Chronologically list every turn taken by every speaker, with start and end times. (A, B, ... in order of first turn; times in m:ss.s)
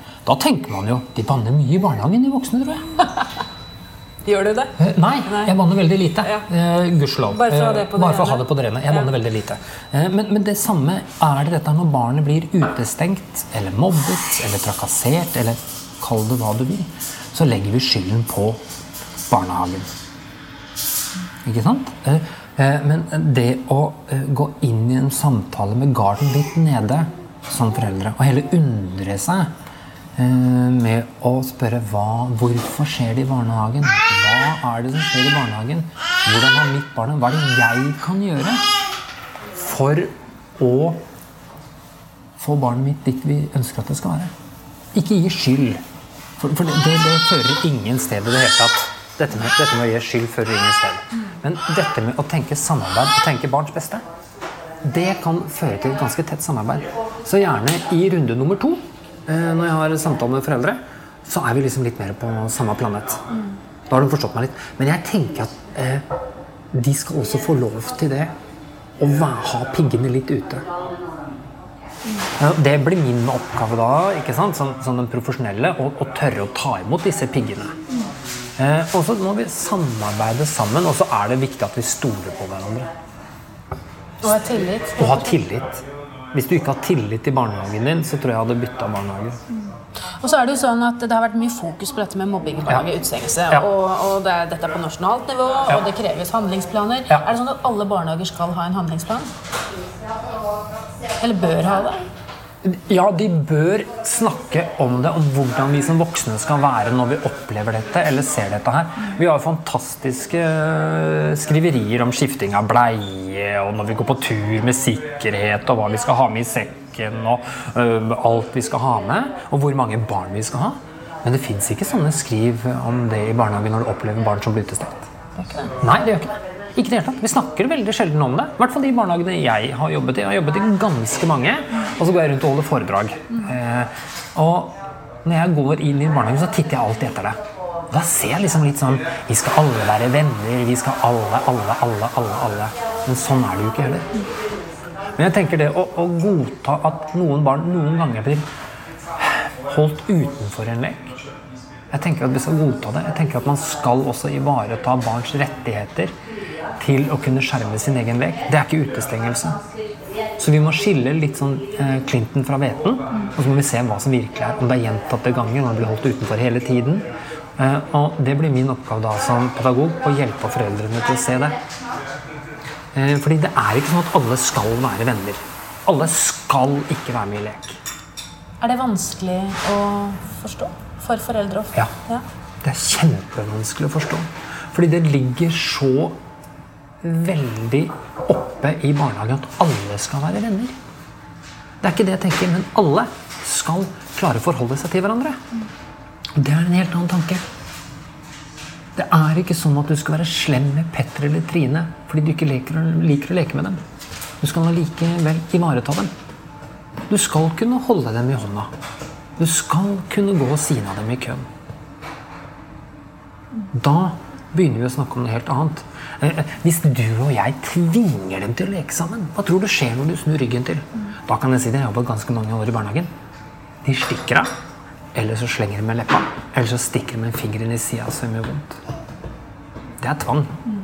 0:00.2-0:03.0 A
0:04.2-0:05.5 B
0:04.8-0:18.6 A
0:07.3-0:09.1 B
0:19.3-0:19.9 A
0:21.4-0:29.5 A
0:30.2-0:38.7 A
0:39.5-0:41.0 A
0:42.4-0:44.3 A
0:44.9-0:45.8 A
0:46.4-0:54.0 A
0:54.8-1:03.2 A
1:03.9-1:06.0 A
1:06.7-1:08.3 A
1:09.0-1:10.6 A
1:12.4-1:17.8 A
1:18.6-1:22.9 A
1:24.2-1:25.3 B
1:25.0-1:29.4 A
1:30.2-1:39.3 B
1:41.2-1:42.0 B
1:42.6-2:05.1 A
2:05.4-2:05.8 B
2:05.8-2:17.4 A
2:17.9-2:24.1 A
2:25.2-2:28.4 A
2:29.2-2:31.1 A
2:31.9-2:36.1 A
2:36.8-2:39.6 A
2:40.4-2:51.6 A
2:52.9-2:57.8 A
2:58.6-3:02.2 B
3:02.6-3:06.2 A
3:07.0-3:10.7 A
3:11.8-3:15.4 A
3:16.4-3:17.4 A
3:19.0-3:23.8 A
3:24.4-3:26.1 A
3:27.1-3:28.7 A
3:29.4-3:31.4 A
3:33.7-3:43.1 A
3:43.8-3:44.5 A
3:45.1-3:48.8 A
3:50.0-3:50.6 A